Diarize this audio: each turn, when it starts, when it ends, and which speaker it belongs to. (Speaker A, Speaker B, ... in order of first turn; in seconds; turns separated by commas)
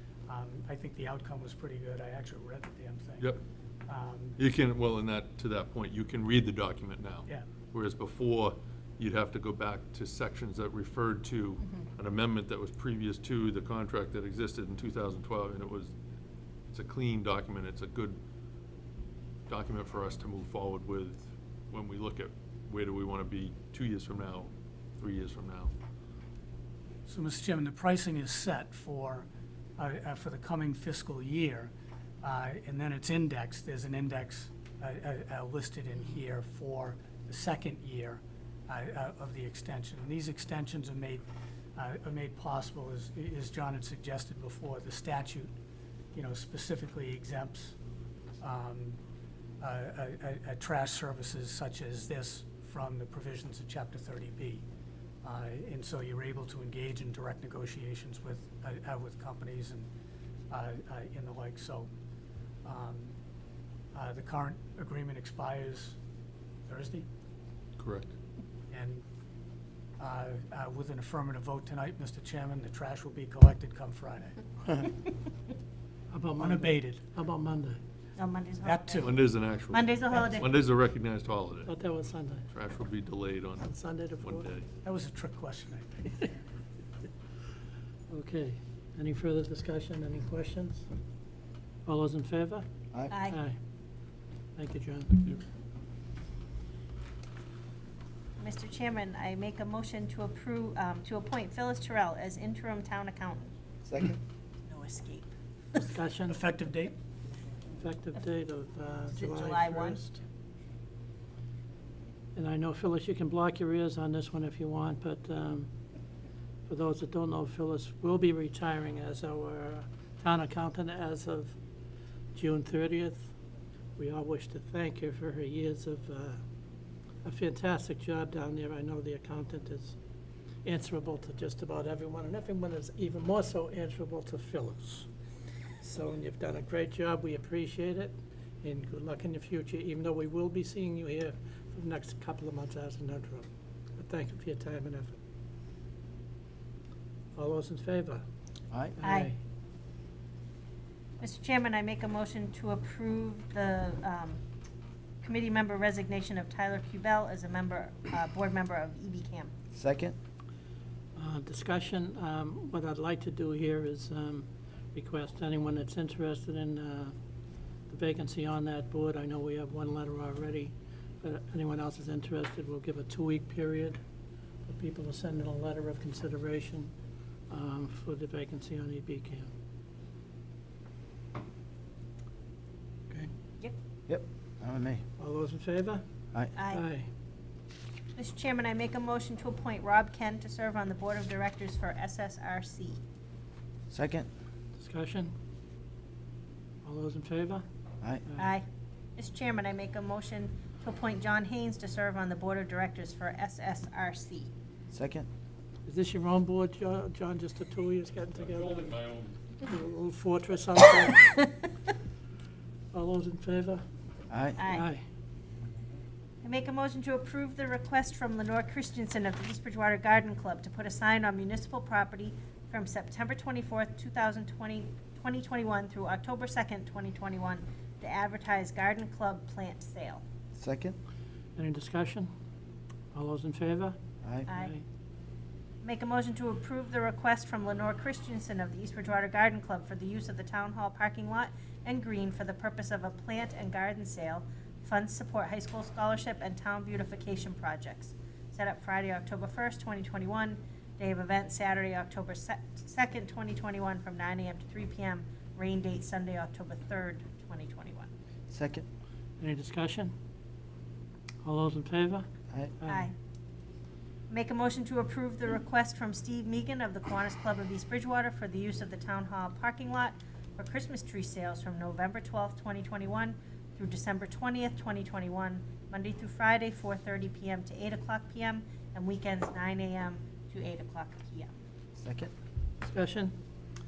Speaker A: 0.3-3.3, Speaker A: 3.9-4.4, Speaker B: 4.4-15.9, Speaker B: 16.7-18.2, Speaker B: 19.5-25.7, Speaker A: 27.1-41.2, Speaker A: 41.8-45.5, Speaker A: 46.1-47.8, Speaker A: 48.4-49.0, Speaker A: 49.6-54.7, Speaker A: 55.2-59.9, Speaker A: 60.5-61.9, Speaker A: 62.6-63.2, Speaker A: 63.9-66.0, Speaker A: 66.7-67.1, Speaker B: 67.8-68.1, Speaker A: 68.7-69.1, Speaker A: 70.0-74.4, Speaker C: 76.1-77.8, Speaker A: 76.4-77.1, Speaker D: 78.2-80.5, Speaker A: 78.6-79.1, Speaker B: 79.0-81.7, Speaker C: 81.7-82.5, Speaker B: 82.5-83.7, Speaker C: 83.6-84.5, Speaker B: 84.2-84.7, Speaker A: 84.8-86.1, Speaker C: 88.1-90.9, Speaker C: 91.8-92.7, Speaker D: 93.1-93.4, Speaker C: 93.3-93.6, Speaker C: 94.6-95.4, Speaker D: 98.4-103.5, Speaker E: 103.8-104.2, Speaker D: 104.7-105.8, Speaker C: 105.8-106.4, Speaker A: 106.3-107.0, Speaker C: 107.8-110.2, Speaker D: 109.1-110.0, Speaker C: 112.3-115.7, Speaker C: 116.7-121.6, Speaker C: 122.3-123.3, Speaker C: 124.0-126.4, Speaker C: 127.2-130.0, Speaker C: 130.6-135.1, Speaker C: 135.8-145.2, Speaker C: 147.3-148.2, Speaker E: 148.7-149.0, Speaker C: 149.0-149.4, Speaker D: 149.0-149.3, Speaker D: 151.2-154.4, Speaker D: 155.2-159.5, Speaker E: 159.7-160.2, Speaker C: 161.2-167.2, Speaker C: 167.9-174.0, Speaker C: 174.7-176.9, Speaker C: 177.5-179.5, Speaker E: 184.1-185.0, Speaker C: 185.2-186.0, Speaker D: 186.6-186.8, Speaker C: 186.7-187.1, Speaker D: 188.2-193.0, Speaker E: 193.9-194.3, Speaker C: 194.8-195.3, Speaker C: 196.8-197.6, Speaker C: 198.3-198.5, Speaker D: 198.4-198.7, Speaker D: 199.2-204.5, Speaker E: 204.9-205.3, Speaker C: 205.8-209.0, Speaker B: 208.4-209.4, Speaker C: 209.6-211.7, Speaker C: 212.9-213.8, Speaker E: 214.3-214.6, Speaker D: 214.6-214.9, Speaker C: 214.7-215.0, Speaker D: 216.4-230.2, Speaker E: 230.6-231.0, Speaker C: 231.6-232.3, Speaker C: 233.1-234.0, Speaker E: 234.2-234.5, Speaker D: 234.5-234.8, Speaker C: 234.5-234.8, Speaker D: 235.8-258.1, Speaker E: 258.5-258.9, Speaker C: 259.4-260.1, Speaker C: 261.4-262.3, Speaker C: 262.8-263.1, Speaker D: 262.9-263.1, Speaker D: 264.3-281.5, Speaker E: 282.0-282.3, Speaker C: 282.8-283.4